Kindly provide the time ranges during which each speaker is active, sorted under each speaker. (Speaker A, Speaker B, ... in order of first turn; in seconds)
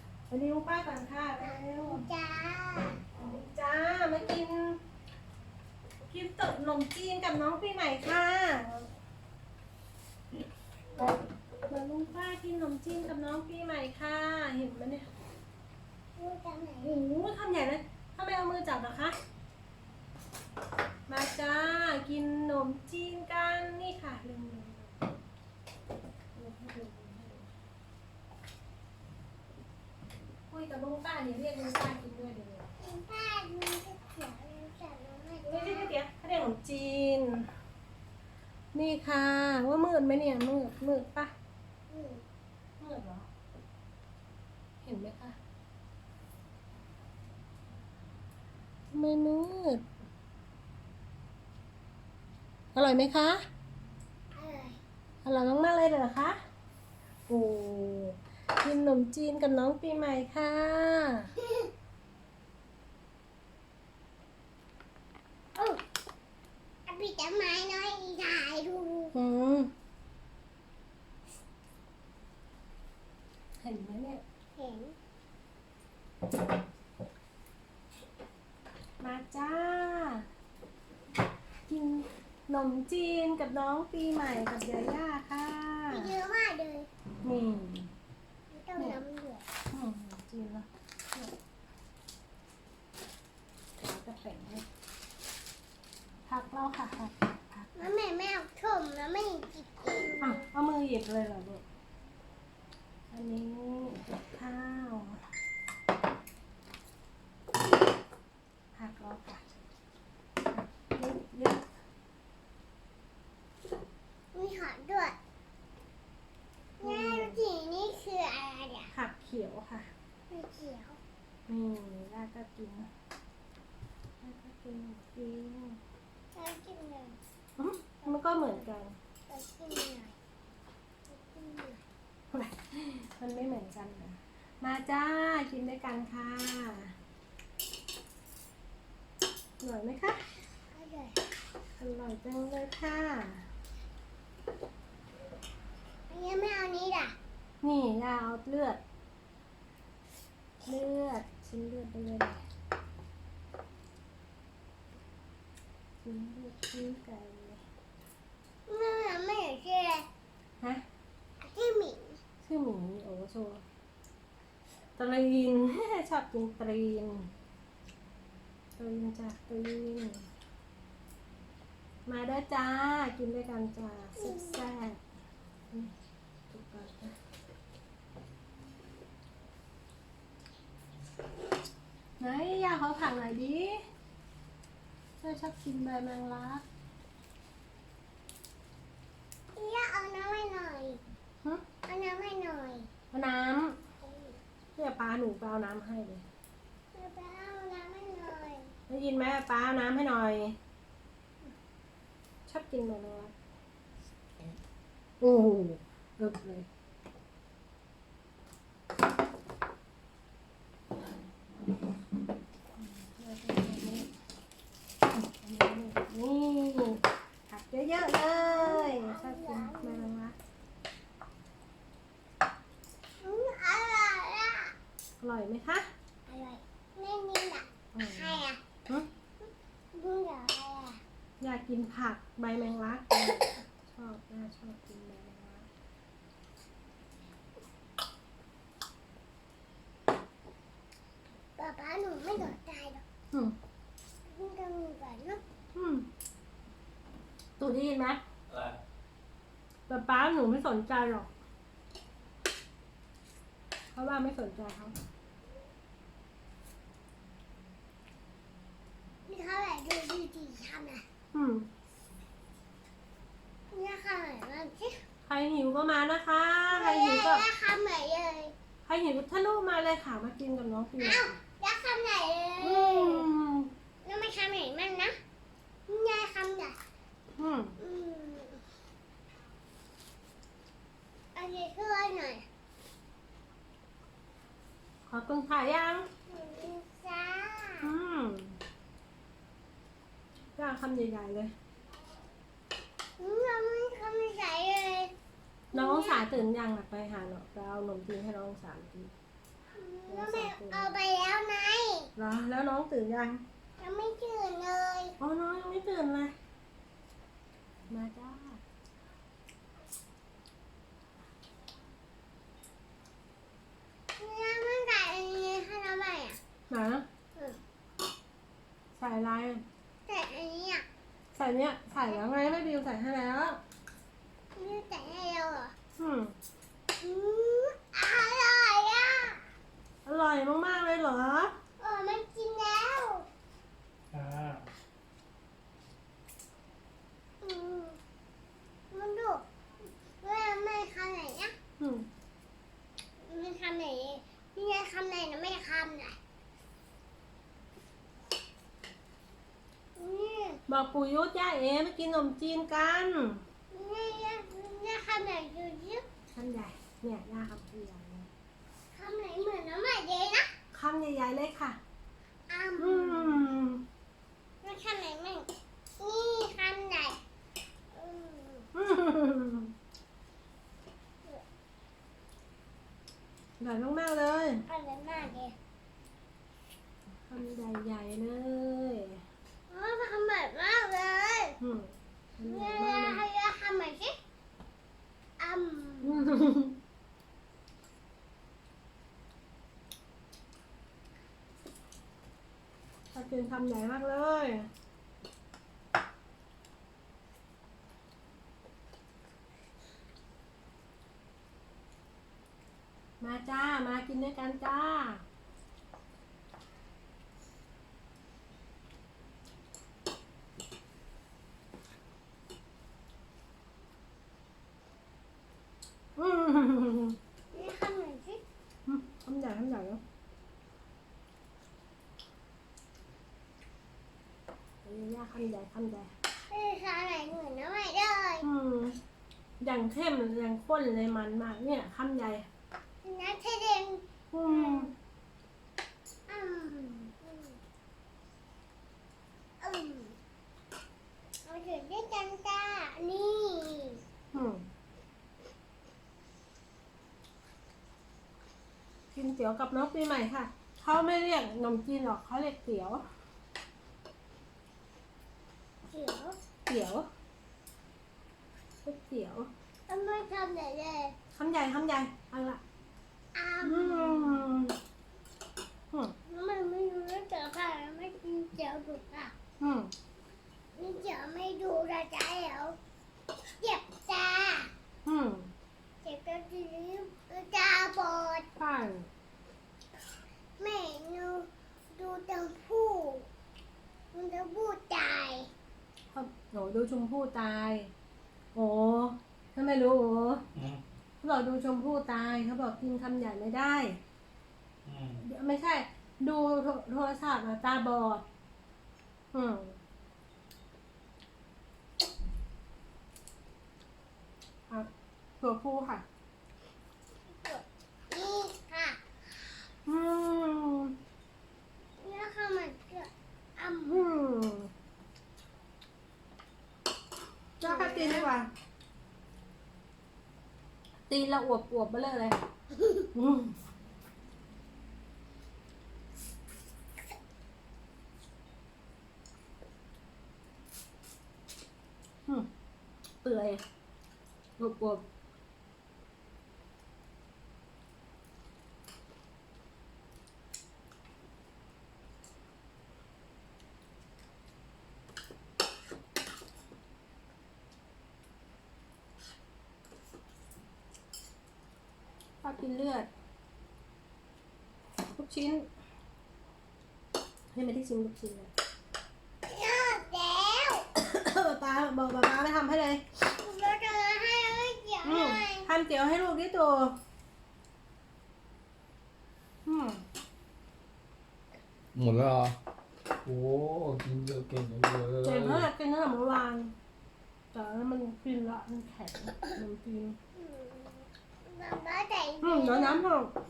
Speaker A: 0.3-2.0, 3.2-4.8, 6.1-8.8, 11.7-15.0, 16.9-19.1, 21.1-25.1, 26.3-27.5, 30.5-32.7, 35.5-37.5, 38.7-41.3, 42.8-43.3, 44.8-45.4, 48.9-49.8, 52.7-53.4, 55.2-56.4, 57.3-61.3, 69.1-69.7, 73.6-74.2, 79.0-80.2, 81.7-86.1, 87.2-87.9, 89.7-91.3, 93.8-94.6, 96.3-97.9, 100.2-101.6, 103.1-105.2, 108.7-109.4, 110.5-111.7, 116.8-117.4, 118.9-119.9, 121.5-122.9, 124.2-125.8, 127.6-128.9, 132.3-136.9, 139.6-140.2, 141.8-143.4, 147.6-148.8, 150.7-152.4, 156.0-157.6, 162.4-163.6, 165.0-167.3, 168.8-170.2, 172.1-175.0, 176.5-177.2, 182.2-183.8, 185.2-186.6, 193.1-193.8, 194.8-196.2, 198.9-200.6, 202.5-203.3, 205.2-206.7, 212.8-214.1, 215.1-220.3, 225.2-225.9, 227.9-229.1, 231.4-235.7, 245.7-246.1, 247.6-248.2, 249.9-251.3, 253.9-254.9, 261.3-261.7, 265.2-267.4, 268.9-271.3, 272.6-273.7, 277.4-277.8, 285.1-286.1, 287.8-288.6, 290.6-291.5, 295.7-299.1, 300.1-300.9, 302.2-303.4, 305.2-306.3, 307.9-308.6, 316.7-317.1, 318.9-319.6, 321.3-323.6, 326.0-326.3, 330.0-331.5, 341.8-342.1, 350.7-353.4, 356.3-358.3, 360.7-361.8, 362.8-363.8, 368.7-369.7, 373.6-374.6, 377.3-379.2, 381.6-383.2, 386.0-386.8, 393.1-394.7, 403.2-405.2, 416.1-417.2, 418.9-420.0, 424.8-426.1, 428.4-428.9, 429.6-432.5, 434.3-434.9, 444.3-444.7, 449.1-453.0, 456.7-457.1, 458.8-459.5, 461.3-462.6, 463.6-464.8, 469.6-469.9, 475.0-475.5, 478.6-479.1, 486.1-487.9, 488.5-490.4, 491.2-494.0, 495.2-498.2, 499.3-499.8, 505.4-506.0, 509.9-510.9, 513.9-514.7, 517.6-518.5, 521.1-522.4, 523.1-523.5, 533.2-533.6, 534.6-535.0, 552.4-553.1, 555.0-555.7, 557.5-558.5, 561.0-563.0, 565.0-567.0, 569.6-570.0, 575.2-576.7, 577.5-580.2, 582.4-583.3
Speaker B: 1.4-3.0, 16.2-17.1, 32.8-35.9, 41.9-42.2, 54.3-54.8, 61.4-61.7, 65.5-65.8, 66.9-69.1, 74.5-75.0, 85.9-86.9, 88.5-89.5, 97.8-100.4, 114.3-115.2, 116.8-118.9, 120.3-121.0, 126.3-127.2, 128.0-128.7, 129.3-130.2, 131.1-131.8, 140.7-141.2, 146.1-147.2, 158.7-160.1, 161.4-162.2, 174.2-174.7, 189.5-191.0, 191.9-192.9, 194.0-194.3, 196.9-198.7, 218.3-220.1, 223.2-224.7, 226.3-228.6, 229.4-231.0, 241.6-243.0, 244.3-245.4, 259.2-261.0, 263.7-265.0, 266.7-268.5, 271.0-273.3, 274.0-275.1, 275.9-276.8, 277.8-278.6, 281.3-282.4, 286.3-287.9, 293.2-295.1, 295.7-296.2, 299.7-302.1, 303.8-305.1, 314.2-316.4, 320.1-320.8, 324.6-325.7, 327.0-329.4, 331.8-333.3, 337.4-338.0, 338.9-339.4, 340.2-341.5, 343.2-346.2, 349.9-350.6, 353.7-356.0, 358.9-360.5, 362.5-363.5, 364.6-365.5, 366.0-367.2, 367.9-368.7, 374.7-375.5, 379.7-381.6, 382.4-384.2, 385.4-386.2, 417.5-418.4, 426.5-428.4, 433.0-434.9, 436.3-437.6, 439.6-440.1, 441.4-444.0, 455.9-456.4, 459.9-461.2, 463.3-464.5, 466.2-469.3, 470.7-472.8, 473.6-474.7, 476.0-478.5, 480.6-483.3, 484.1-485.5, 507.3-509.0, 512.0-514.1, 517.6-518.3, 559.5-560.9, 563.2-565.7, 580.3-583.0
Speaker C: 571.9-572.6, 573.2-575.7